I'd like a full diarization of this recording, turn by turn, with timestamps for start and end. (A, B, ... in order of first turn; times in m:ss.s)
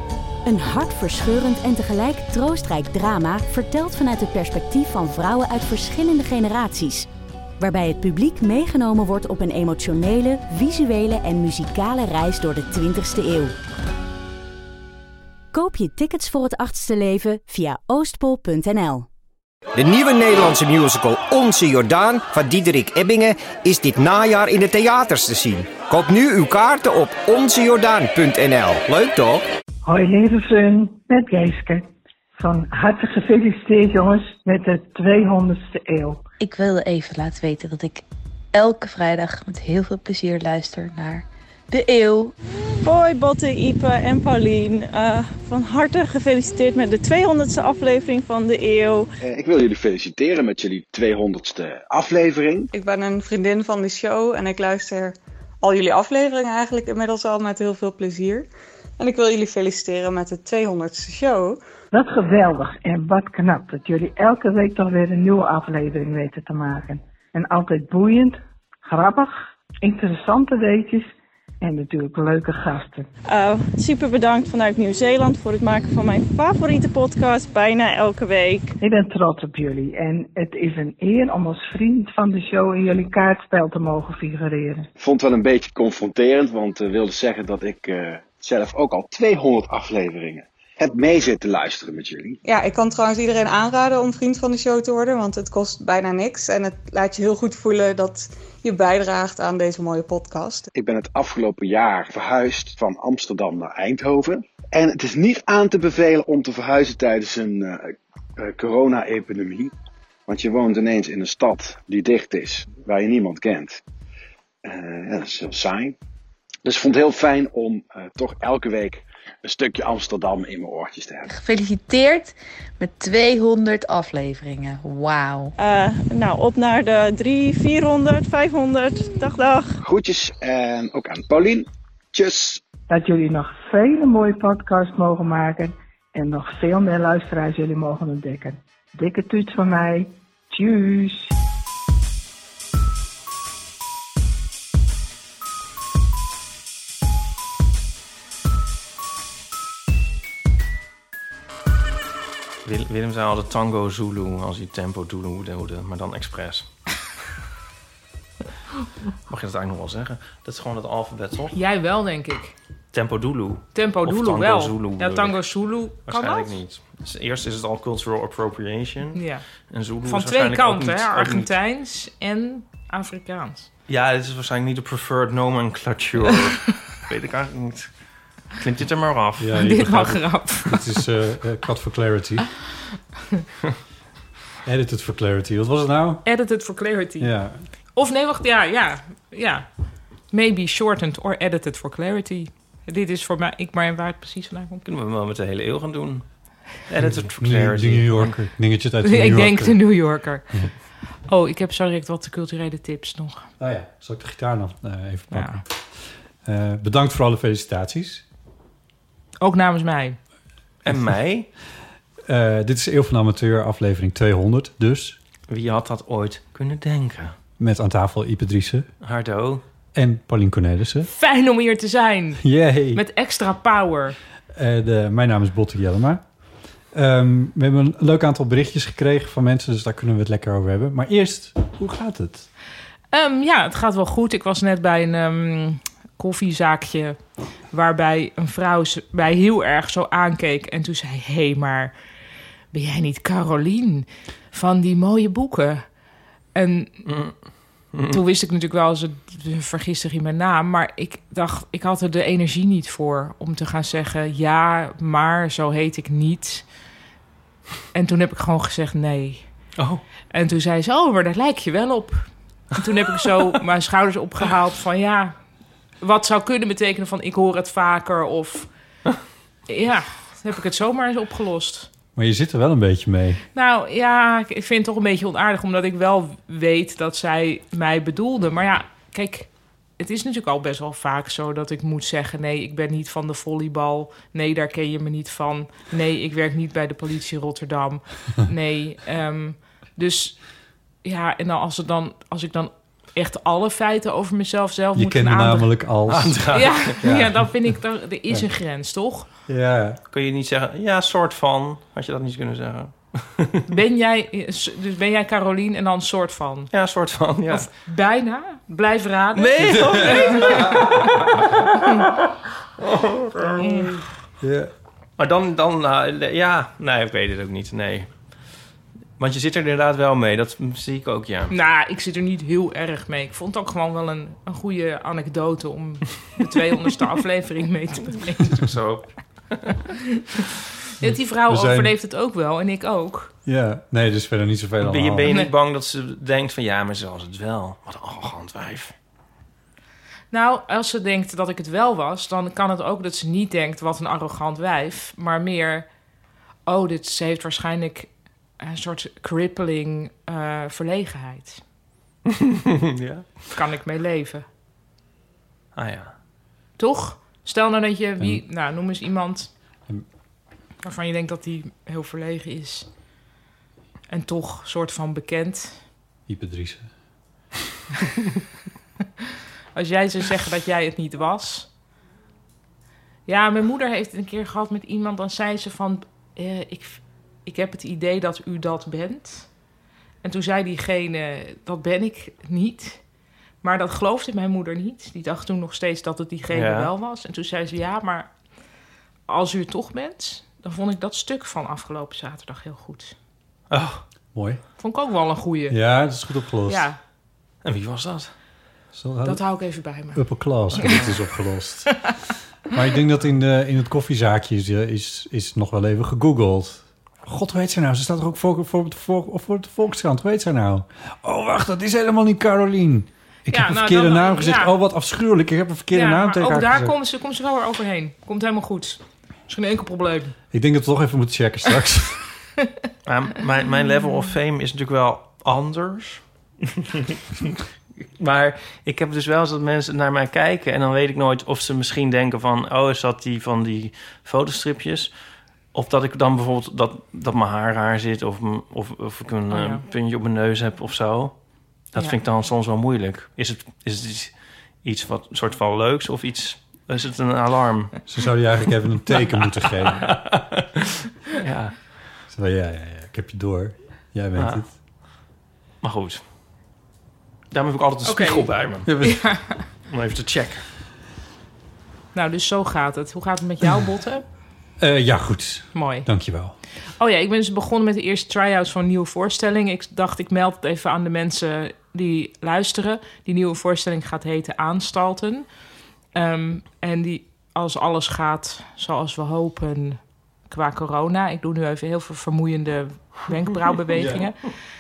0:00.4-0:07.1 A
0:07.6-0:13.5 A
0:15.5-0:19.1 A
0:19.8-0:29.5 B
0:29.8-0:36.2 C
0:36.4-0:42.3 D
0:42.8-0:49.1 E
0:49.2-0:52.7 F
0:52.7-0:58.5 G
0:59.0-1:01.6 G
1:01.9-1:11.1 C
1:11.6-1:13.1 C
1:13.3-1:18.8 E
1:18.8-1:24.9 C
1:25.0-1:32.4 F
1:32.5-1:40.7 G
1:40.7-1:49.7 F
1:50.3-1:53.8 F
1:54.6-1:56.0 F
1:56.6-2:01.3 F
2:01.3-2:05.5 D
2:05.6-2:09.8 E
2:09.8-2:12.6 F
2:12.9-2:21.3 C
2:32.6-2:36.7 H
2:39.3-2:41.6 H
2:41.5-2:42.5 I
2:42.9-2:45.4 H
2:43.7-2:46.6 I
2:46.0-2:51.5 H
2:49.1-2:49.4 I
2:50.0-2:53.7 I
2:53.9-2:57.9 H
2:58.6-2:59.8 H
2:59.4-3:02.5 J
2:59.6-3:01.0 I
3:04.6-3:06.3 J
3:06.2-3:07.3 I
3:07.2-3:07.6 J
3:08.0-3:09.7 I
3:10.3-3:14.8 I
3:14.8-3:16.3 H
3:16.8-3:18.4 H
3:17.0-3:19.9 J
3:19.0-3:20.5 I
3:21.3-3:23.5 I
3:23.6-3:28.2 J
3:25.3-3:25.6 I
3:29.4-3:30.2 I
3:30.8-3:31.5 H
3:32.3-3:35.2 J
3:35.5-3:37.3 H
3:37.6-3:38.9 J
3:39.0-3:39.6 H
3:39.9-3:41.1 J
3:41.1-3:44.2 I
3:42.4-3:43.0 J
3:44.5-3:46.2 J
3:46.9-3:52.5 J
3:53.1-3:57.2 I
3:57.7-4:01.9 I
4:02.7-4:05.9 I
4:06.6-4:06.9 I
4:07.0-4:07.4 H
4:07.9-4:08.2 H
4:08.1-4:16.6 I
4:17.9-4:19.5 I
4:19.8-4:20.0 H
4:20.3-4:25.4 I
4:26.0-4:28.7 I
4:29.7-4:31.9 I
4:32.2-4:33.4 J
4:33.6-4:50.4 I
4:51.0-4:55.8 I
4:55.0-4:57.5 J
4:56.1-4:57.0 H
4:56.5-4:59.3 I
4:59.5-5:00.0 J
5:00.1-5:03.6 H
5:03.7-5:06.7 I
5:06.7-5:07.7 H
5:07.5-5:11.1 I
5:09.4-5:12.2 H
5:12.8-5:14.0 H
5:13.6-5:14.0 I
5:14.4-5:14.7 J
5:15.2-5:18.1 H
5:19.2-5:21.5 H
5:21.5-5:28.7 I
5:28.6-5:29.7 H
5:29.9-5:30.2 I
5:31.0-5:33.3 I
5:31.0-5:31.9 J
5:33.4-5:35.3 J
5:34.8-5:38.9 H
5:40.3-5:45.9 I
5:46.7-5:51.6 I
5:52.7-5:53.5 H
5:53.5-5:54.4 I
5:55.8-5:56.1 H
5:56.8-5:59.5 I
6:00.8-6:02.9 I
6:04.1-6:05.8 I
6:06.3-6:06.9 J
6:09.8-6:11.7 I
6:13.3-6:19.5 I
6:20.2-6:23.0 I
6:23.6-6:28.3 I
6:26.5-6:26.9 H
6:29.3-6:33.2 I
6:33.7-6:34.0 H
6:34.3-6:34.6 J
6:34.8-6:35.8 I
6:35.7-6:36.9 J
6:36.7-6:37.0 I
6:37.6-6:38.3 H
6:38.9-6:39.4 J
6:39.2-6:41.0 I
6:40.1-6:42.1 J
6:42.7-6:57.0 J
6:53.5-6:54.7 I
6:55.9-7:00.4 I
7:00.5-7:02.3 J
7:03.0-7:06.2 H
7:08.2-7:15.1 H
7:15.7-7:21.4 H
7:19.5-7:19.8 I
7:21.9-7:28.0 H
7:28.1-7:30.2 J
7:30.0-7:30.4 H
7:31.3-7:31.9 H
7:32.3-7:34.7 J
7:34.4-7:34.6 H
7:35.8-7:36.2 H
7:37.5-7:38.9 H
7:38.0-7:39.6 I
7:38.9-7:39.3 J
7:39.9-7:40.6 H
7:42.2-7:44.2 I
7:44.8-7:46.6 J
7:45.7-7:46.1 I
7:47.0-7:55.5 I
7:56.1-8:04.4 I
8:03.9-8:04.3 J